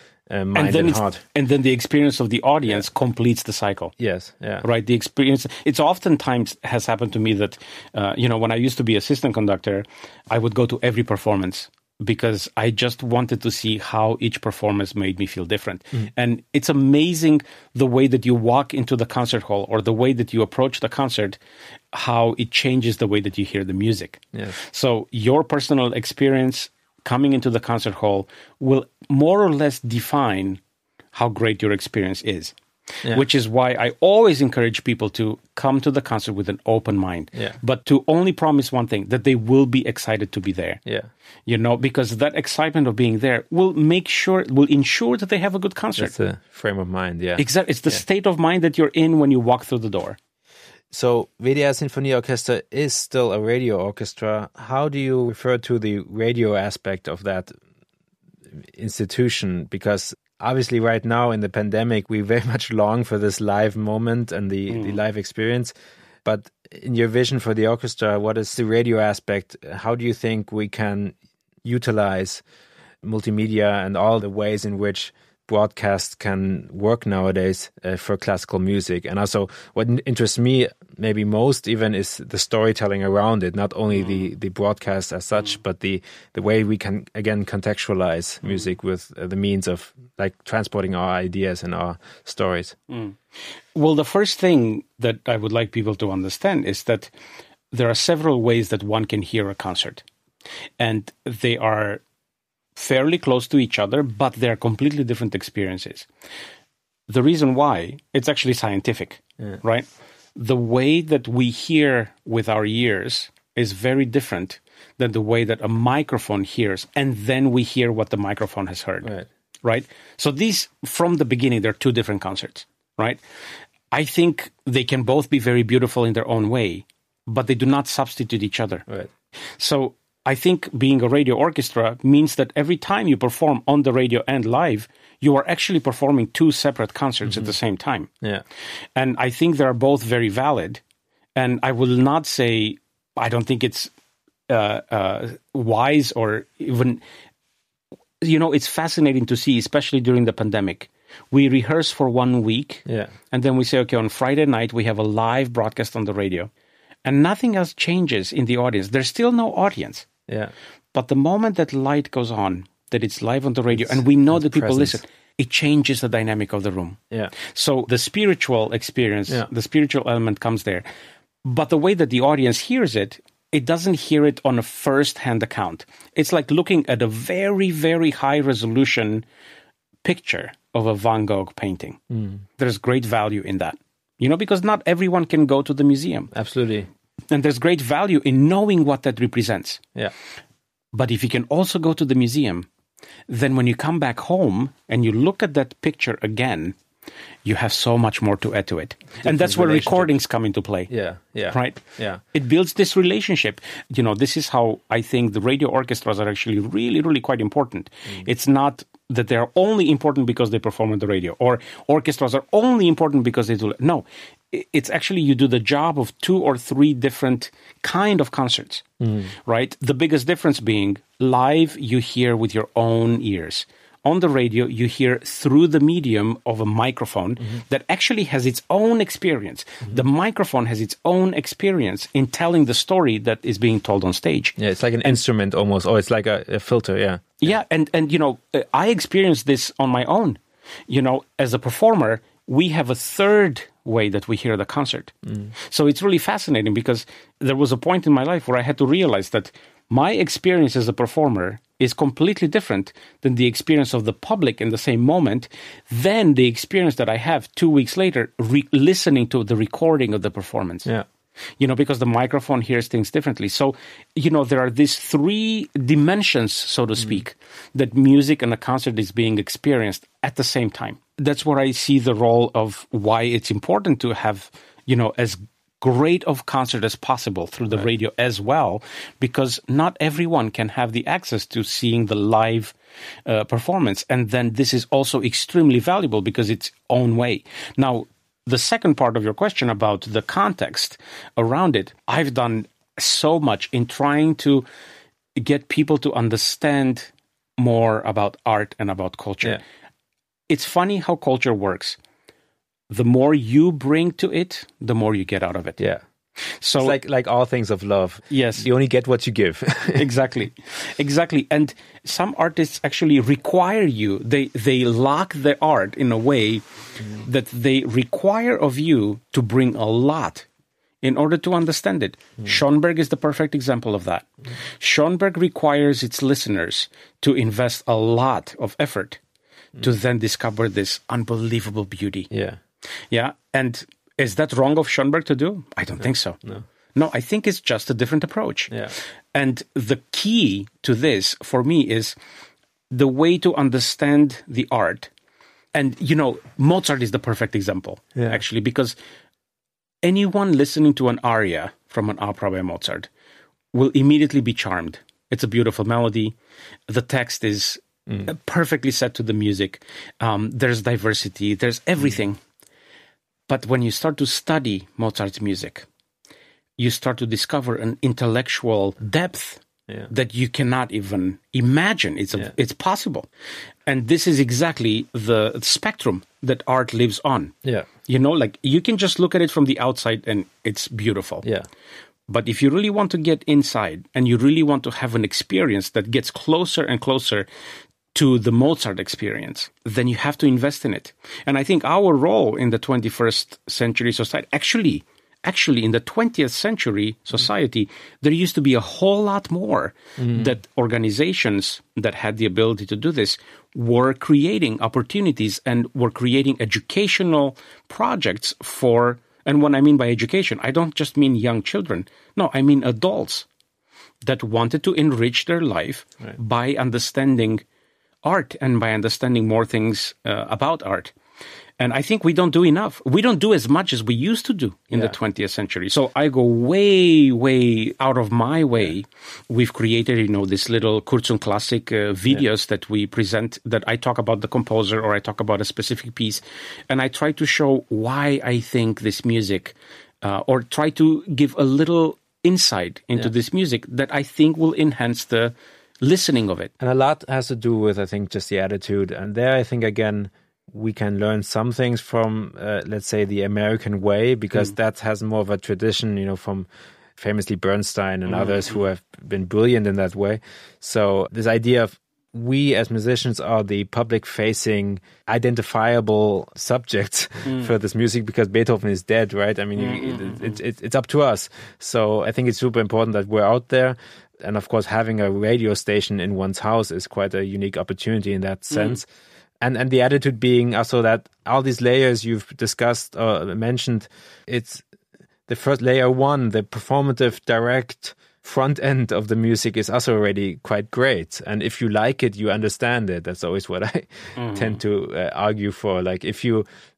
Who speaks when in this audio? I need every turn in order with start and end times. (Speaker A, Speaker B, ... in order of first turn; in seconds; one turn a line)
Speaker A: 0.3-1.2
Speaker B: 0.6-3.9
Speaker A: 4.0-4.7
Speaker B: 4.6-21.4
Speaker B: 21.9-30.6
Speaker B: 31.1-32.5
Speaker B: 33.1-40.8
Speaker B: 41.5-46.1
Speaker A: 46.0-48.0
Speaker B: 47.4-50.2
Speaker A: 50.9-57.5
Speaker A: 58.6-65.7
Speaker B: 64.7-65.0
Speaker A: 66.2-72.4
Speaker A: 73.0-92.8
Speaker B: 92.9-93.2
Speaker B: 93.7-97.1
Speaker B: 97.7-100.0
Speaker B: 100.8-102.0
Speaker B: 102.8-106.1
Speaker B: 107.1-119.1
Speaker B: 119.6-123.2
Speaker B: 123.9-128.9
Speaker B: 129.6-138.1
Speaker B: 139.0-140.8
Speaker B: 141.4-143.9
Speaker B: 144.5-147.0
Speaker B: 148.2-156.5
Speaker A: 152.9-153.1
Speaker B: 157.1-160.1
Speaker B: 160.9-170.8
Speaker A: 163.7-165.0
Speaker B: 171.4-179.2
Speaker B: 180.0-182.0
Speaker A: 182.1-182.4
Speaker B: 182.6-186.3
Speaker A: 186.3-186.9
Speaker B: 187.3-189.8
Speaker B: 190.9-192.7
Speaker B: 193.3-196.8
Speaker B: 197.4-200.9
Speaker A: 199.2-200.1
Speaker A: 200.9-202.2
Speaker B: 201.5-201.8
Speaker B: 202.3-235.2
Speaker A: 219.0-219.3
Speaker A: 234.6-237.4
Speaker B: 237.4-260.9
Speaker B: 261.6-294.7
Speaker B: 295.4-299.6
Speaker B: 300.5-302.0
Speaker B: 302.9-305.8
Speaker B: 306.6-307.0
Speaker A: 306.8-310.1
Speaker B: 308.3-308.7
Speaker B: 309.9-320.5
Speaker B: 321.0-324.3
Speaker B: 324.8-329.2
Speaker B: 329.8-332.3
Speaker A: 332.3-332.6
Speaker B: 333.1-336.4
Speaker B: 336.9-342.1
Speaker B: 342.9-345.1
Speaker B: 345.7-349.0
Speaker B: 350.0-353.1
Speaker B: 353.7-356.4
Speaker B: 356.9-362.4
Speaker B: 363.5-365.9
Speaker B: 366.8-373.3
Speaker B: 373.9-377.6
Speaker B: 378.1-381.5
Speaker B: 382.3-387.5
Speaker B: 388.1-413.5
Speaker A: 400.2-400.5
Speaker B: 414.2-417.6
Speaker B: 418.2-421.1
Speaker B: 421.8-446.7
Speaker A: 446.8-479.1
Speaker B: 458.3-458.6
Speaker B: 469.8-470.6
Speaker B: 478.7-479.0
Speaker A: 479.6-484.8
Speaker A: 485.5-496.7
Speaker B: 494.4-494.8